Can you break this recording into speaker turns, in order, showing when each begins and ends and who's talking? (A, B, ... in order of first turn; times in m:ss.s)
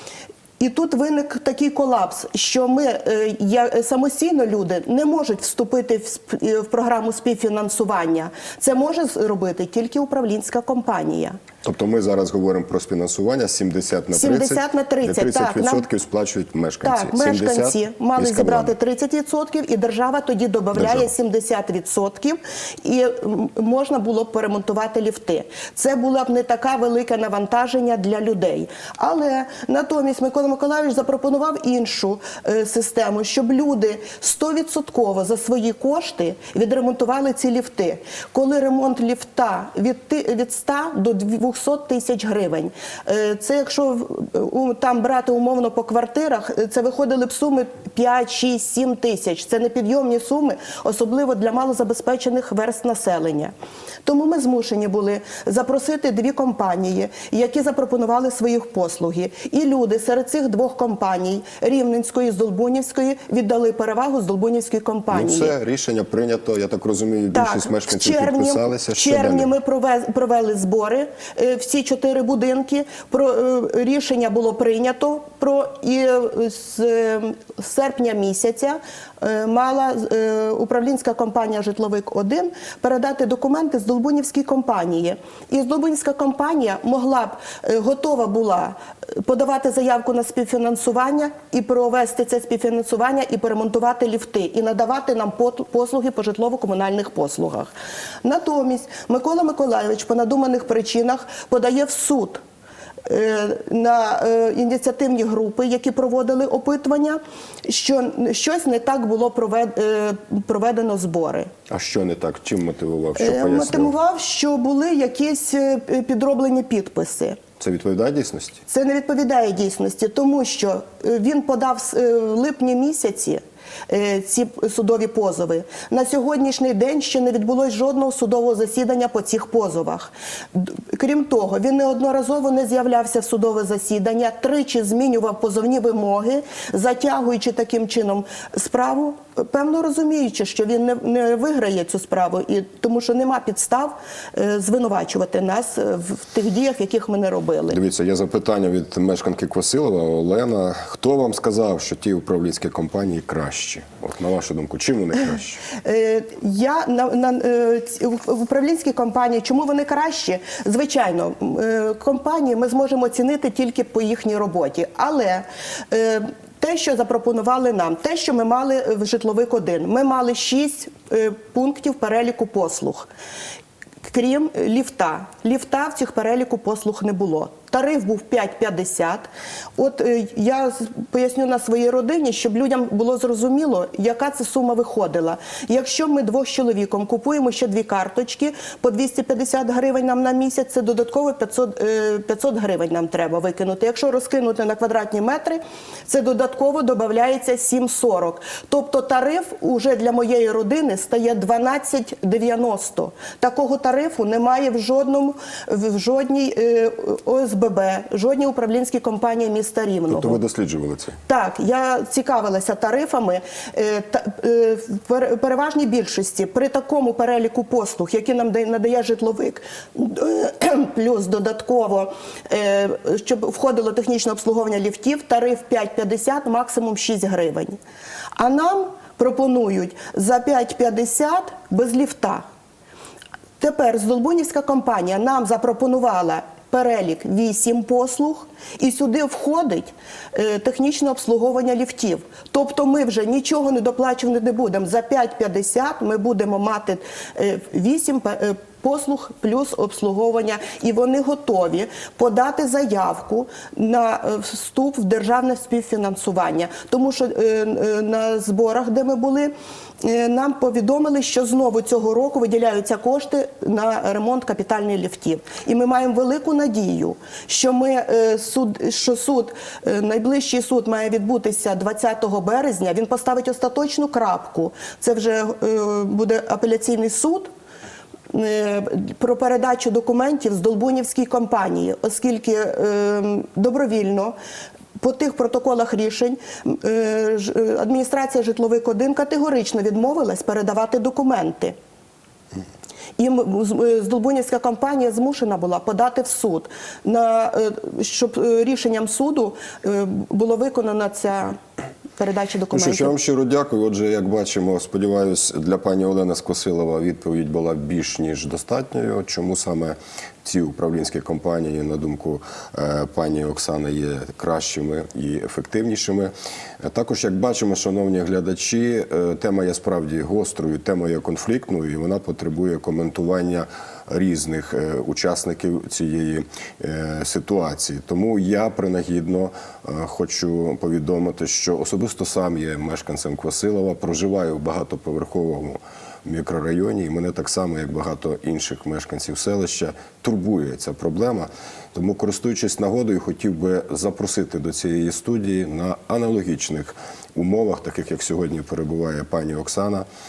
0:00.6-0:11.4 A
0:11.6-0:18.7 B
0:14.1-0:15.9 A
0:16.8-0:53.5 A
0:20.7-0:21.1 B
0:54.0-1:05.5 A
1:05.1-1:09.5 B
1:07.3-1:37.7 A
1:38.2-1:42.4 A
1:43.0-1:51.5 A
1:51.7-1:53.9 B
1:53.2-1:57.4 A
1:57.6-1:58.6 B
1:58.7-2:27.8 A
2:27.7-2:35.6 B
2:35.7-2:53.1 A
2:54.0-3:30.4 A
3:30.1-3:31.2 B
3:31.3-3:47.8 A
3:48.4-3:52.4 A
3:53.6-4:37.5 A
4:38.3-4:44.4 A
4:45.0-4:51.8 A
4:53.2-5:01.6 A
5:02.2-5:03.2 A
5:02.7-5:50.0 B